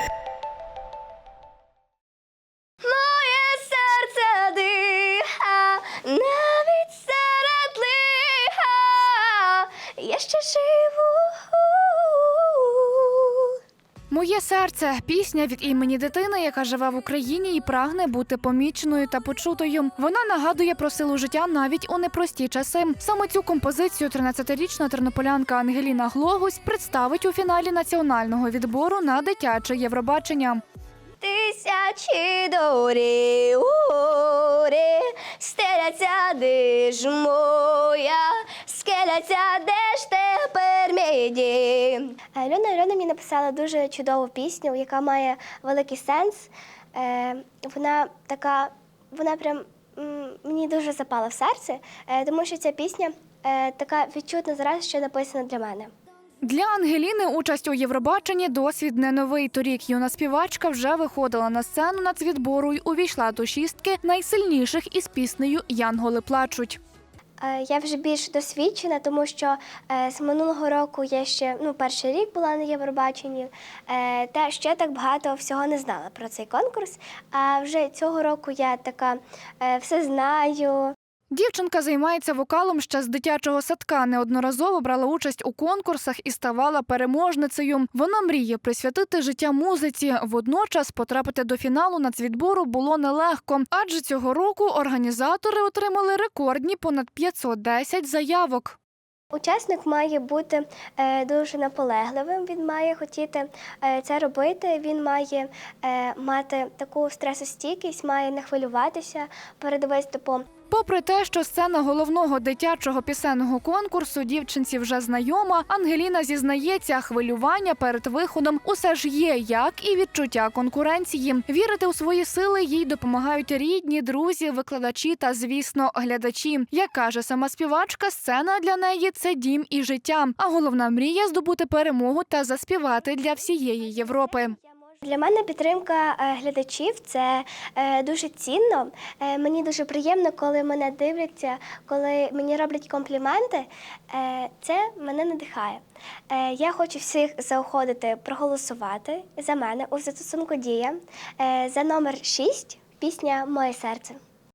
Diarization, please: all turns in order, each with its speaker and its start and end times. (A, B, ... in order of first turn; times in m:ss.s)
0:02.8-0:13.5 A
0:14.1-0:30.6 B
0:31.2-0:55.9 A
0:56.4-1:06.8 B
1:07.4-1:20.9 A
1:21.3-1:38.8 B
1:39.3-1:50.4 A
1:50.7-2:14.6 B
2:12.8-2:34.2 A